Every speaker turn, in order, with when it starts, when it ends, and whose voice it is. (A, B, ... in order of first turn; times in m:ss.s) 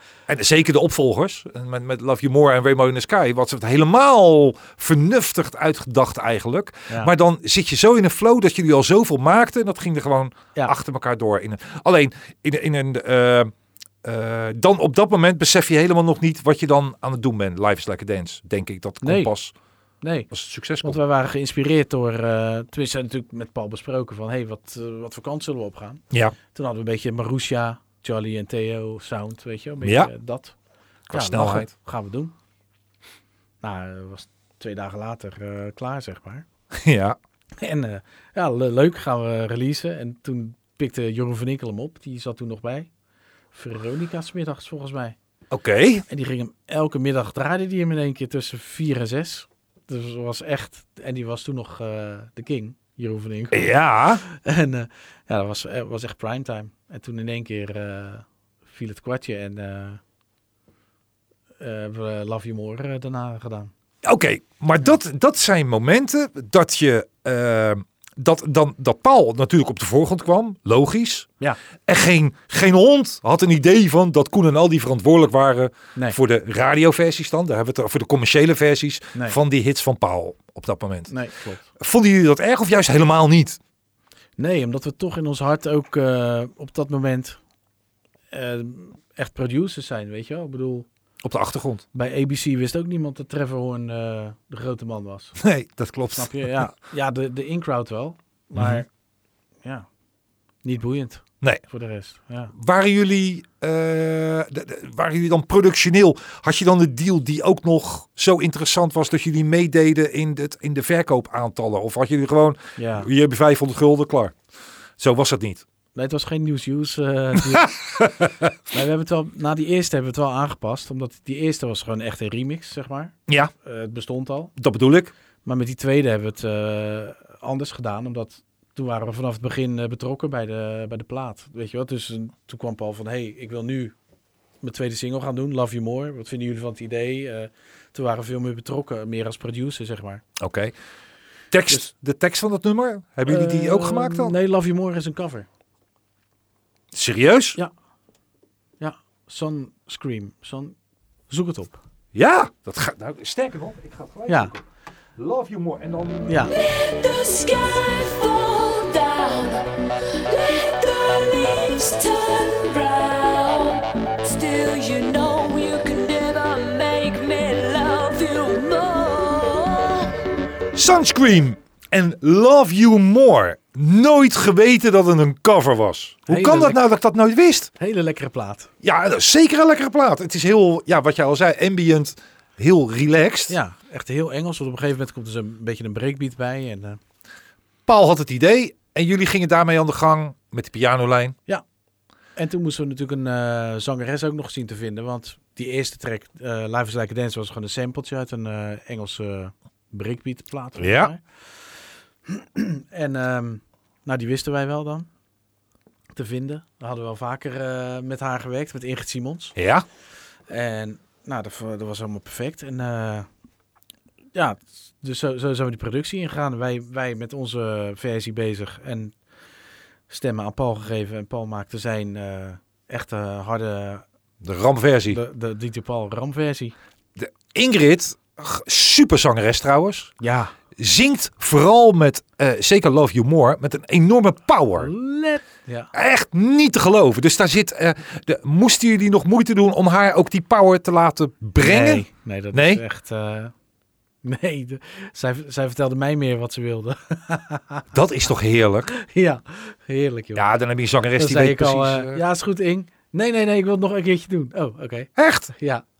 0:00.3-0:19.5 A
0:19.0-0:19.3 B
0:20.0-0:20.3 B
0:20.3-0:21.0 A
0:20.8-0:30.5 B
0:29.8-0:30.1 A
0:31.1-0:31.7 A
0:31.1-0:32.3 B
0:33.6-0:36.4 B
0:36.7-0:37.2 A
0:37.6-0:42.9 B
0:43.5-0:45.2 B
0:45.5-0:46.0 A
0:46.1-1:00.0 B
0:53.5-0:54.2 A
1:01.6-1:03.7 B
1:04.0-1:11.3 A
1:11.8-1:21.1 A
1:21.1-1:21.6 B
1:21.8-1:23.6 A
1:24.4-1:27.4 B
1:28.3-1:30.9 B
1:31.2-1:31.8 A
1:31.9-1:35.4 B
1:35.4-1:36.5 A
1:36.1-1:38.9 B
1:38.6-1:38.8 A
1:40.6-1:42.5 B
1:42.5-1:54.3 A
1:52.8-1:53.1 B
1:55.0-1:55.6 A
1:55.9-1:57.8 B
1:57.6-1:58.4 A
1:58.7-2:04.5 B
2:04.6-2:05.1 A
2:05.4-2:13.9 B
2:14.6-2:20.2 B
2:20.4-2:20.7 A
2:21.5-2:24.3 A
2:23.2-2:25.5 B
2:26.9-2:27.6 A
2:28.8-2:30.8 B
2:31.3-2:31.8 B
2:32.1-2:34.6 A
2:34.3-2:34.5 B
2:35.2-2:36.4 A
2:36.3-2:36.5 B
2:36.5-2:50.2 C
2:50.7-2:57.7 A
2:56.3-2:56.8 B
2:57.8-2:58.7 B
2:58.8-3:03.6 A
3:03.5-3:07.0 B
3:07.9-3:11.3 A
3:12.4-3:21.2 B
3:20.8-3:21.1 A
3:22.2-3:25.1 B
3:26.1-3:29.5 B
3:29.6-3:29.8 A
3:30.5-3:33.3 B
3:34.3-3:39.1 B
3:40.1-3:44.0 B
3:44.4-3:45.2 A
3:45.1-3:46.7 B
3:47.2-3:50.1 A
3:50.2-3:50.5 B
3:50.8-3:54.9 A
3:54.8-3:55.9 B
3:55.9-4:02.8 A
4:01.6-4:03.5 B
4:04.2-4:07.9 B
4:07.9-4:08.9 A
4:08.9-4:10.4 B
4:10.3-4:12.2 A
4:11.2-4:15.8 B
4:15.2-4:15.5 A